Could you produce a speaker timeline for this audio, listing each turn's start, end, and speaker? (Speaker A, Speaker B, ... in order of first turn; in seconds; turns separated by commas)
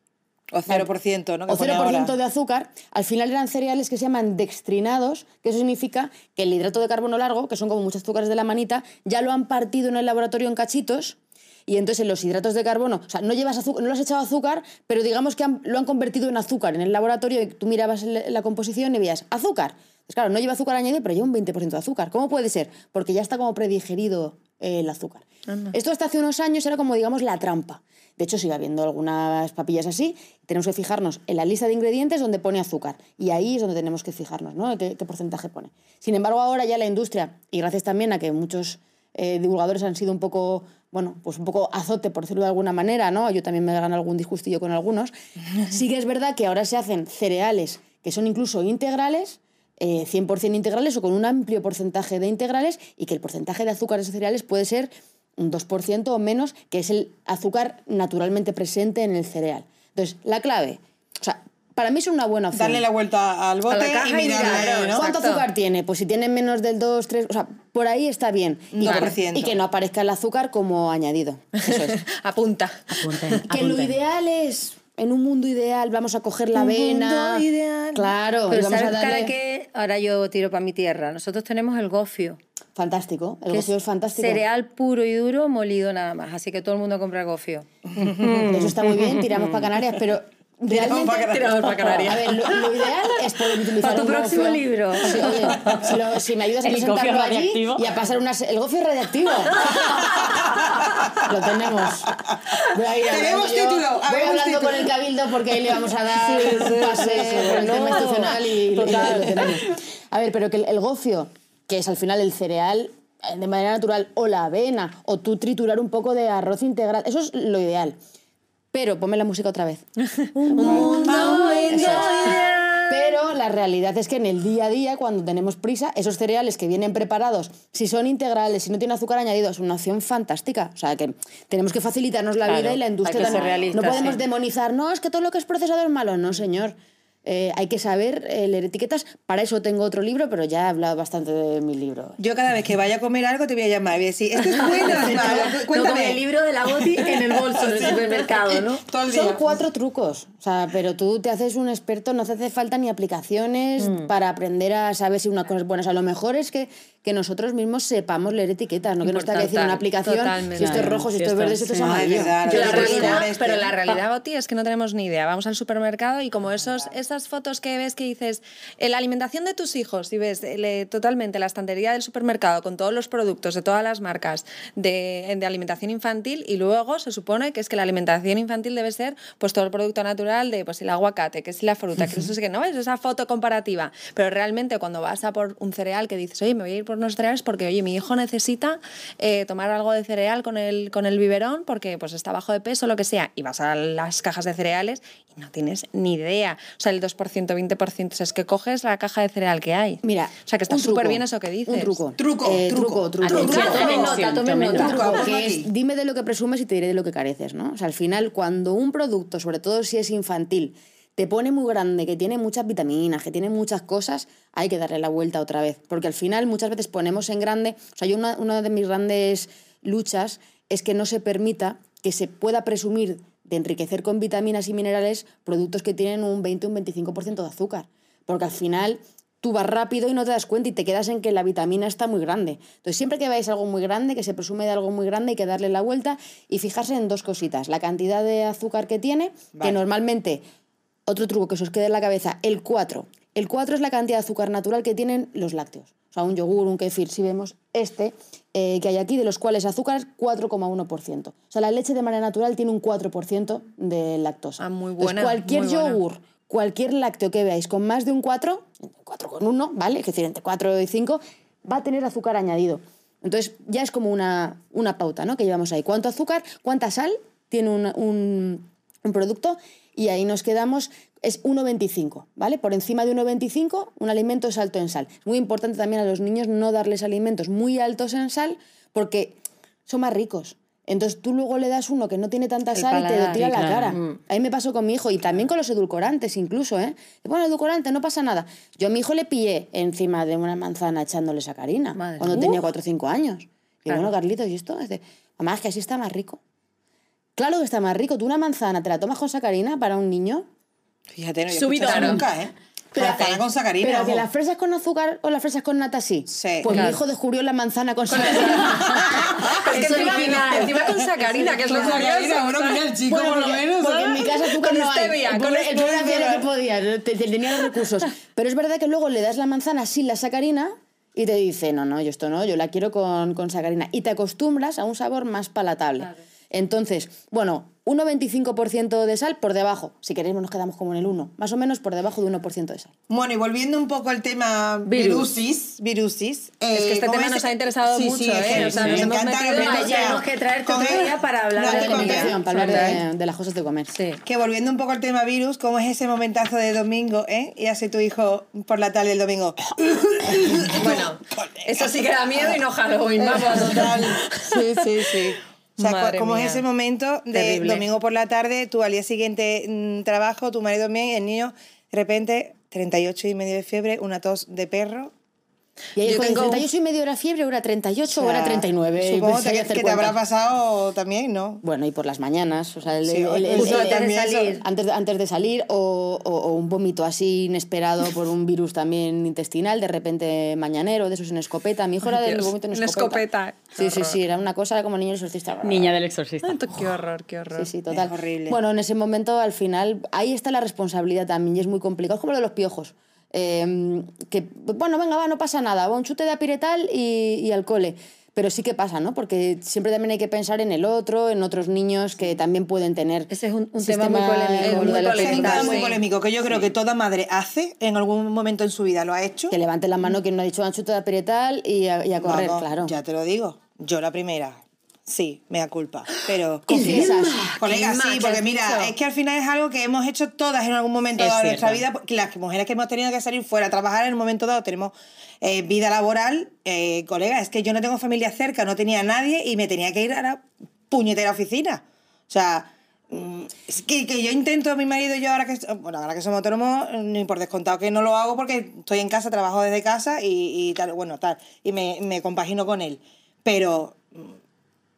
Speaker A: 0.5-2.1, Speaker B: 1.5-62.9, Speaker C: 25.5-25.7, Speaker A: 62.5-65.1, Speaker C: 63.7-65.5, Speaker B: 64.4-72.0, Speaker A: 68.7-69.6, Speaker C: 71.6-73.4, Speaker D: 73.0-74.0, Speaker B: 73.5-79.3, Speaker A: 76.6-78.1, Speaker E: 78.5-82.4, Speaker B: 82.8-84.4, Speaker E: 83.5-89.7, Speaker A: 87.9-88.5, Speaker B: 88.5-100.1, Speaker A: 90.7-92.2, Speaker E: 91.5-92.2, Speaker E: 93.8-95.7, Speaker D: 96.6-97.9, Speaker A: 99.8-100.5, Speaker B: 101.2-118.0, Speaker A: 103.0-104.9, Speaker A: 106.3-108.2, Speaker E: 106.4-109.4, Speaker A: 109.0-109.5, Speaker B: 118.7-122.3, Speaker A: 120.6-122.6, Speaker C: 120.7-122.3, Speaker E: 120.7-122.0, Speaker B: 122.9-142.2, Speaker E: 133.0-134.2, Speaker A: 133.4-133.7, Speaker A: 142.2-146.2, Speaker B: 144.9-145.5, Speaker E: 145.7-148.8, Speaker A: 147.6-148.3, Speaker A: 148.8-149.5, Speaker B: 149.1-163.2, Speaker E: 153.8-154.1, Speaker E: 159.1-159.9, Speaker C: 160.1-160.9, Speaker D: 160.6-162.1, Speaker A: 161.8-163.8, Speaker C: 162.4-202.0, Speaker E: 162.5-163.1, Speaker B: 200.0-240.4, Speaker A: 202.2-204.1, Speaker D: 203.2-205.1, Speaker E: 203.3-205.2, Speaker A: 204.8-205.7, Speaker B: 241.1-296.4, Speaker C: 254.6-256.0, Speaker E: 282.7-284.2, Speaker D: 283.4-284.0, Speaker E: 291.9-292.6, Speaker B: 297.4-300.5, Speaker A: 301.1-304.3, Speaker D: 301.5-302.2, Speaker C: 301.8-302.2, Speaker B: 302.9-309.1, Speaker A: 306.3-306.8, Speaker E: 306.7-307.0, Speaker C: 308.1-312.9, Speaker A: 308.2-310.8, Speaker E: 309.7-312.0, Speaker B: 309.7-310.3, Speaker A: 311.4-314.4, Speaker B: 313.1-332.9, Speaker C: 314.4-315.4, Speaker A: 315.3-316.4, Speaker A: 333.1-342.8, Speaker E: 334.9-335.3, Speaker C: 336.7-340.1, Speaker D: 338.5-339.1, Speaker E: 339.5-343.0, Speaker B: 341.6-343.9, Speaker E: 343.9-344.2, Speaker A: 344.2-351.9, Speaker C: 350.8-354.6, Speaker A: 353.2-365.1, Speaker C: 355.8-356.6, Speaker C: 357.3-357.8, Speaker B: 366.0-370.2, Speaker C: 366.0-366.7, Speaker A: 368.1-371.6, Speaker B: 371.6-386.0, Speaker A: 373.1-374.6, Speaker E: 373.5-374.6, Speaker C: 382.1-384.2, Speaker D: 385.6-386.9, Speaker C: 386.4-387.7, Speaker B: 387.6-405.8, Speaker A: 387.9-388.6, Speaker E: 403.3-405.8, Speaker C: 404.6-406.0, Speaker A: 404.7-409.6, Speaker B: 409.5-412.9, Speaker A: 412.2-444.4, Speaker B: 416.7-417.6, Speaker C: 417.6-418.9, Speaker D: 421.2-421.8